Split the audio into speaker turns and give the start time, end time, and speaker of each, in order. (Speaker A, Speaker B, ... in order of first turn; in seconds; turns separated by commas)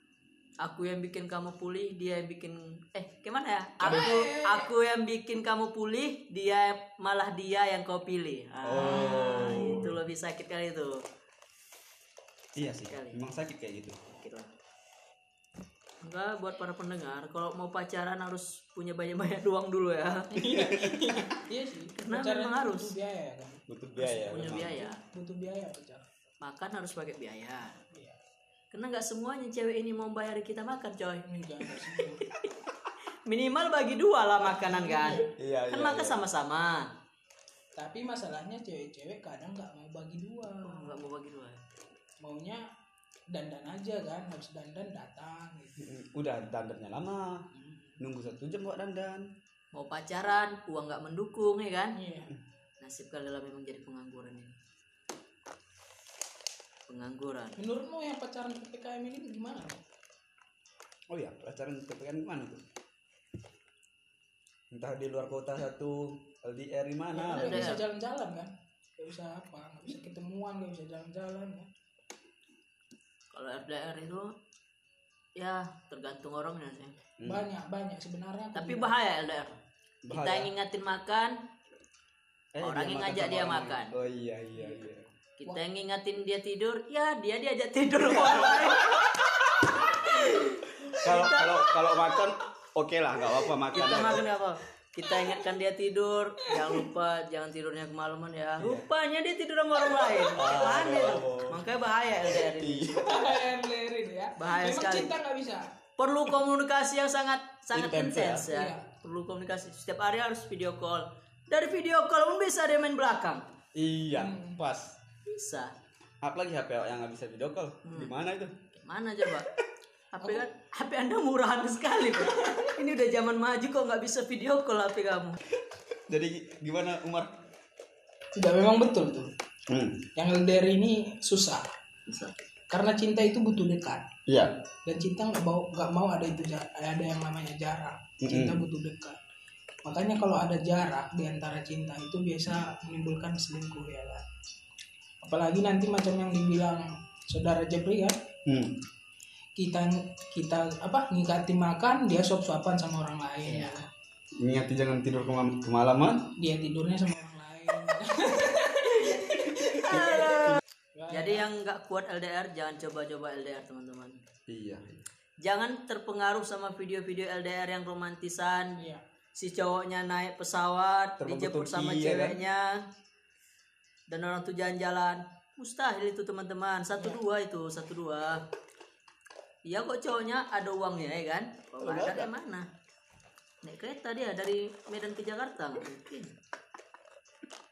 Speaker A: 0.6-11.0, Speaker B: 3.8-4.7, Speaker C: 3.8-4.1, Speaker C: 8.6-10.0, Speaker C: 12.6-14.0, Speaker A: 12.9-13.2, Speaker A: 14.1-14.5, Speaker A: 16.0-20.3, Speaker B: 20.3-26.1, Speaker C: 20.3-21.2, Speaker A: 22.0-22.9, Speaker C: 23.7-24.8, Speaker A: 24.2-25.0, Speaker A: 26.4-27.8, Speaker B: 27.9-28.2, Speaker A: 28.7-31.2, Speaker B: 31.3-32.2, Speaker A: 32.1-32.5, Speaker A: 33.2-36.9, Speaker B: 34.4-35.3, Speaker C: 35.3-36.2, Speaker B: 37.8-41.0, Speaker A: 40.6-41.6, Speaker B: 42.2-42.6, Speaker B: 43.3-45.8, Speaker C: 45.8-47.4, Speaker B: 47.5-48.0, Speaker C: 48.0-49.2, Speaker A: 49.7-52.0, Speaker B: 52.0-52.3, Speaker A: 52.8-54.6, Speaker A: 56.9-57.6, Speaker B: 57.6-59.8, Speaker C: 61.1-62.6, Speaker C: 64.7-67.7, Speaker B: 67.1-71.7, Speaker A: 67.3-67.8, Speaker A: 73.3-74.3, Speaker A: 75.4-76.9, Speaker B: 77.2-78.9, Speaker A: 78.5-79.6, Speaker C: 80.0-80.5, Speaker A: 80.1-81.3, Speaker C: 82.5-85.1, Speaker A: 82.6-83.9, Speaker A: 85.4-91.7, Speaker C: 88.2-89.8, Speaker C: 91.0-94.2, Speaker A: 93.7-103.1, Speaker B: 95.0-95.4, Speaker B: 96.5-96.8, Speaker C: 98.6-98.9, Speaker B: 99.9-100.3, Speaker C: 100.3-101.6, Speaker C: 102.2-103.2, Speaker B: 102.9-105.7, Speaker A: 104.4-105.1, Speaker A: 106.0-113.5, Speaker C: 107.7-108.5, Speaker B: 108.5-108.8, Speaker C: 113.7-115.0, Speaker B: 114.1-114.6, Speaker A: 115.3-115.7, Speaker C: 116.2-118.5, Speaker A: 117.8-118.1, Speaker A: 118.8-119.5, Speaker A: 120.1-125.4, Speaker C: 125.9-127.3, Speaker B: 128.3-129.3, Speaker C: 129.7-130.1, Speaker B: 130.2-131.7, Speaker A: 132.1-132.3, Speaker B: 132.7-134.2, Speaker C: 134.3-134.5, Speaker B: 134.7-139.2, Speaker C: 138.2-138.6, Speaker B: 139.8-144.2, Speaker B: 145.2-148.1, Speaker C: 148.5-148.7, Speaker B: 149.6-153.8, Speaker A: 153.4-153.7, Speaker C: 154.4-156.2, Speaker B: 156.4-161.4, Speaker A: 159.0-164.2, Speaker C: 159.7-160.6, Speaker C: 164.5-165.0, Speaker A: 165.4-168.8, Speaker B: 168.8-169.0, Speaker A: 169.3-172.8, Speaker C: 171.2-172.4, Speaker A: 174.1-178.4, Speaker A: 179.7-182.7, Speaker C: 181.8-182.3, Speaker A: 183.6-186.3